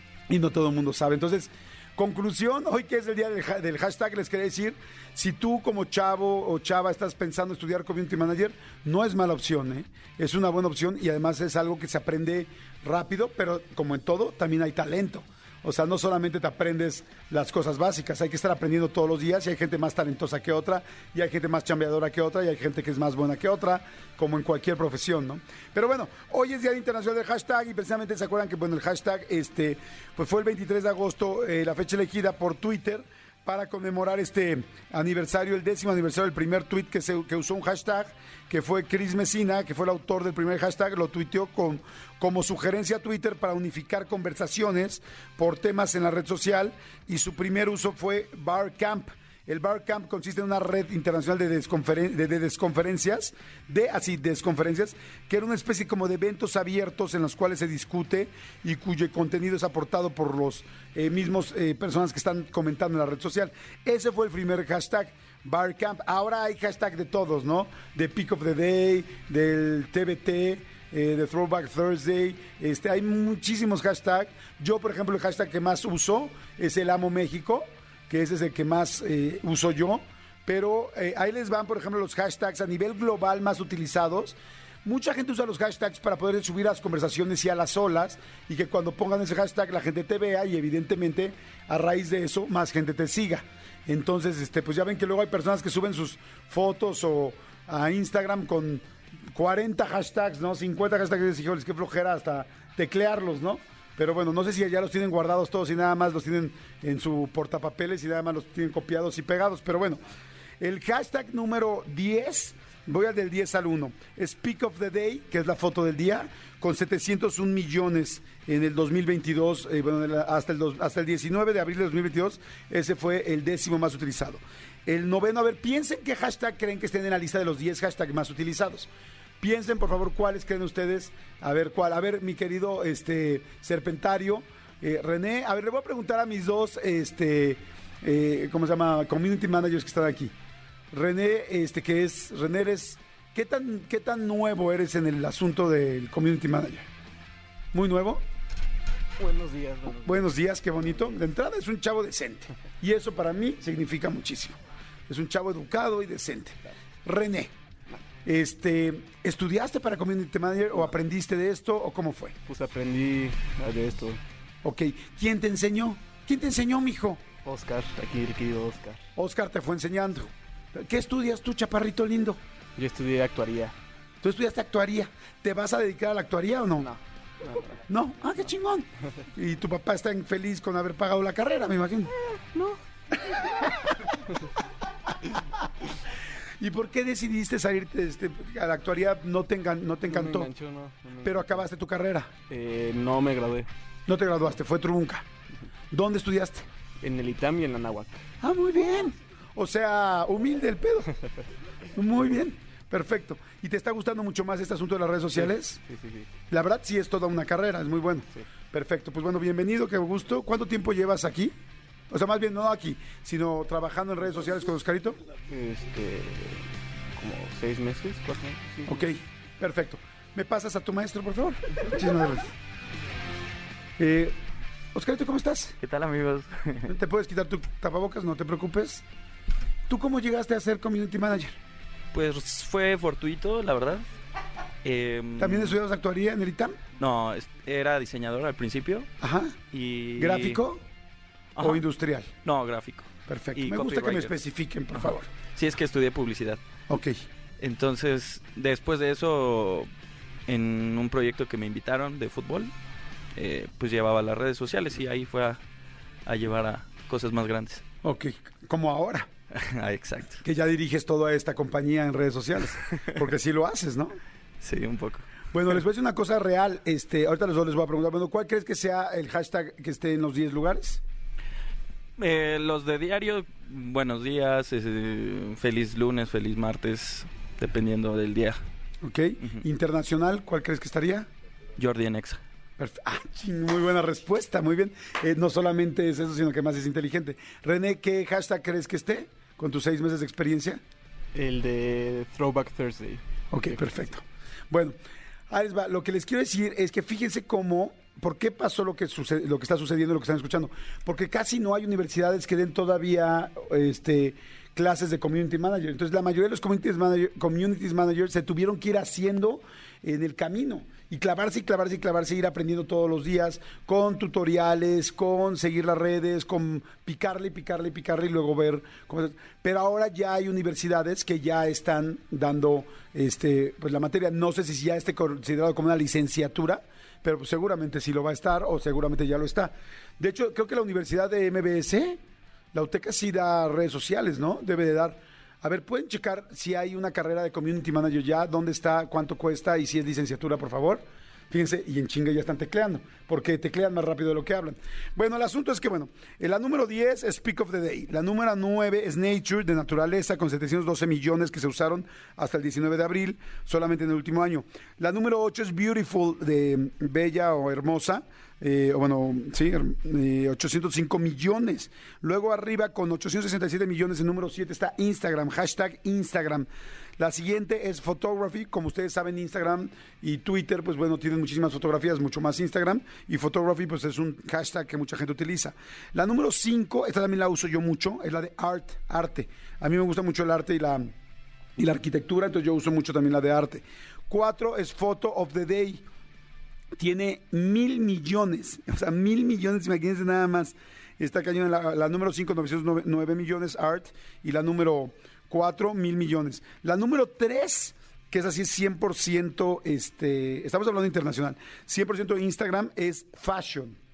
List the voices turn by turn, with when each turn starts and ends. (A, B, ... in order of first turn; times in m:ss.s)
0:00.3-1:50.0 A
1:50.6-2:08.9 A
2:09.4-2:20.3 A
2:20.9-2:26.8 A
2:27.7-2:28.2 A
2:29.2-2:30.3 B
2:30.0-2:34.6 A
2:35.1-2:37.5 A
2:38.2-2:42.4 A
2:42.5-2:44.2 B
2:44.6-2:47.2 A
2:47.4-2:49.0 B
2:49.2-2:52.4 A
2:52.8-2:53.7 B
2:54.2-2:56.9 A
2:56.8-2:57.6 B
2:57.9-3:02.1 A
3:02.5-3:02.8 B
3:06.6-3:10.5 A
3:10.1-3:11.6 B
3:11.2-3:12.3 A
3:12.5-3:13.7 B
3:14.1-3:15.2 A
3:15.9-3:16.7 A
3:17.0-3:18.2 B
3:18.4-3:21.1 A
3:21.9-3:25.8 A
3:25.4-3:26.3 B
3:26.5-3:31.5 A
3:32.1-3:35.2 A
3:35.5-3:39.0 B
3:38.8-3:42.5 A
3:44.0-3:44.3 A
3:44.9-3:45.8 A
3:45.8-3:46.9 C
3:46.9-3:49.0 A
3:49.9-3:51.6 A
3:52.1-3:54.0 C
3:54.8-3:55.8 C
3:55.4-3:56.8 A
3:57.0-3:59.1 C
3:59.2-3:59.6 A
3:59.7-4:00.6 C
4:00.2-4:00.8 A
4:01.5-4:01.8 C
4:01.6-4:02.3 A
4:02.4-4:04.3 C
4:03.2-4:05.3 A
4:05.5-4:06.6 C
4:06.9-4:07.2 A
4:07.6-4:09.9 C
4:10.5-4:12.7 C
4:13.4-4:15.6 C
4:16.2-4:17.8 C
4:18.0-4:19.3 A
4:19.5-4:20.4 C
4:20.4-4:24.2 A
4:24.6-4:25.2 C
4:25.5-4:31.0 A
4:32.2-4:38.6 C
4:39.0-4:41.3 A
4:41.8-4:42.4 C
4:42.8-4:50.8 A
4:51.3-4:53.2 B
4:53.5-4:55.0 A
4:55.5-5:32.2 A
5:32.7-6:21.1 A
6:21.8-6:26.0 A
6:27.0-6:44.0 A